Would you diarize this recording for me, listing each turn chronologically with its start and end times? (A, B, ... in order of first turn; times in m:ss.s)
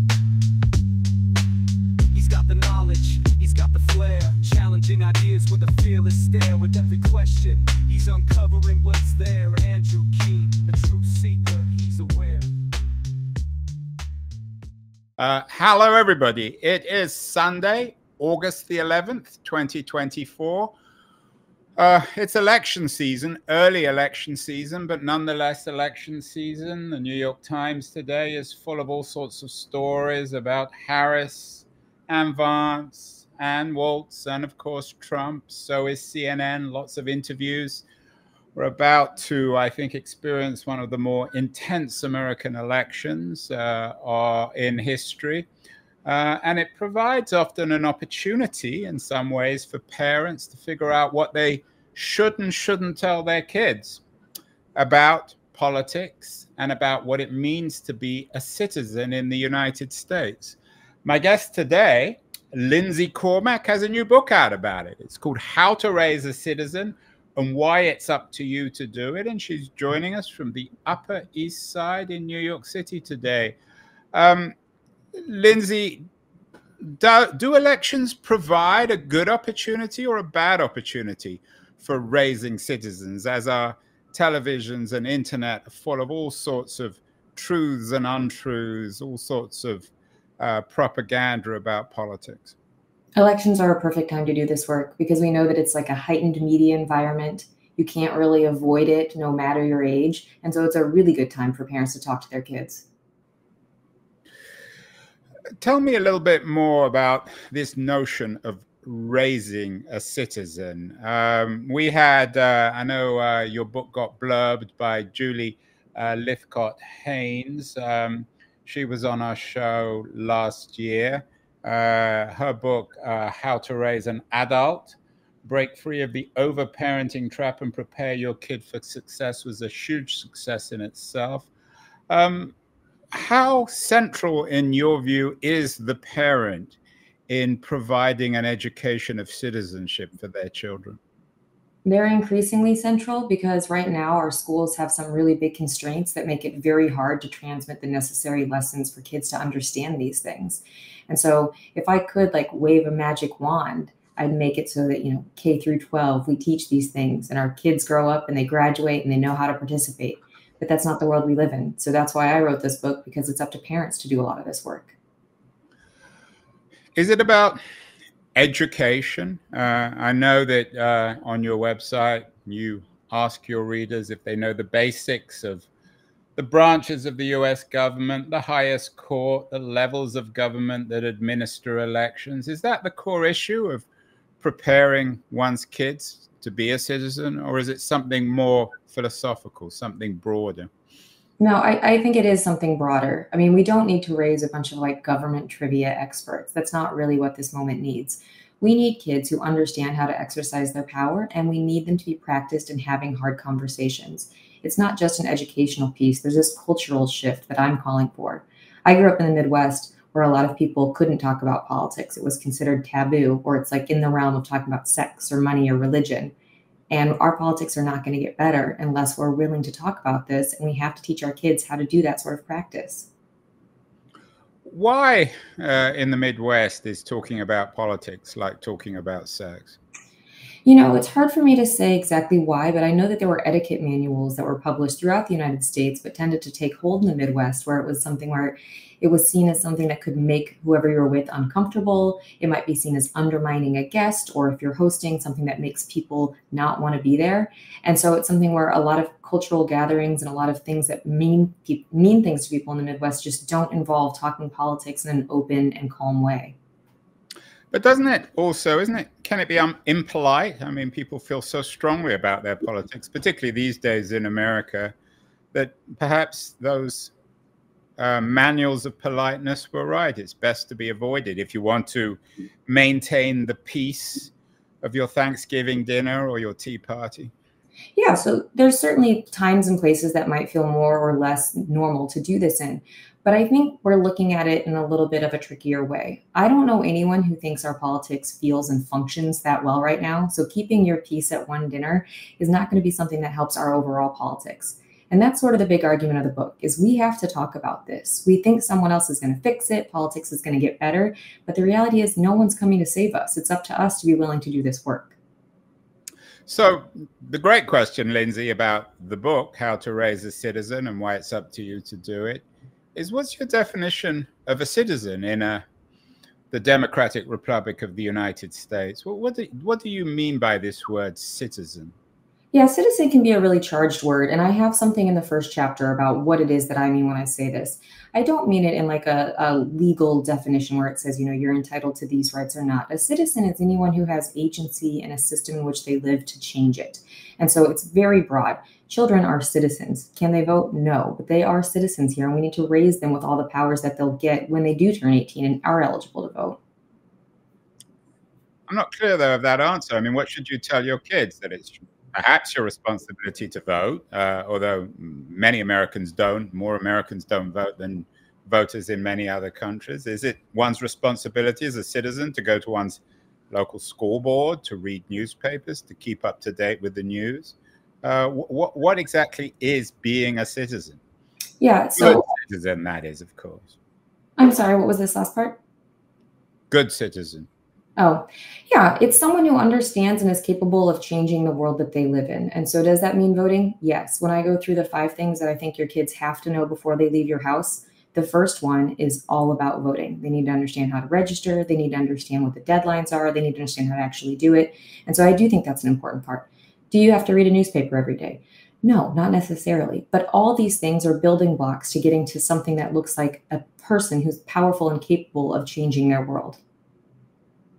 0:02.1-0:12.5 A
0:15.2-0:20.7 B
0:21.8-0:37.8 B
0:38.5-0:45.5 B
0:46.0-0:54.0 B
0:54.7-1:13.6 B
1:14.1-1:14.5 B
1:15.1-1:16.0 B
1:16.8-1:32.5 B
1:33.2-1:42.8 C
1:45.6-2:11.5 B
2:12.1-2:12.5 B
2:13.1-2:16.8 B
2:17.3-2:21.0 B
2:21.8-2:44.9 C
2:46.9-2:47.6 B
2:48.3-2:55.7 B
2:56.4-3:03.8 B
3:04.4-3:10.7 B
3:11.4-3:36.3 C
3:36.9-3:43.1 C
3:44.6-3:49.8 B
3:50.6-4:16.5 C
4:17.7-4:24.9 B
4:25.5-4:27.1 B
4:28.0-4:34.3 B
4:34.8-4:37.3 B
4:38.0-5:05.1 C
5:06.5-5:12.4 B
5:12.9-5:15.6 B
5:16.5-5:21.9 B
5:22.5-5:46.6 C
5:48.7-6:03.0 B
6:03.5-6:11.0 B
6:11.6-6:12.3 C
6:12.0-6:13.7 B
6:14.4-6:15.6 C
6:16.7-6:17.5 B
6:18.0-6:46.6 C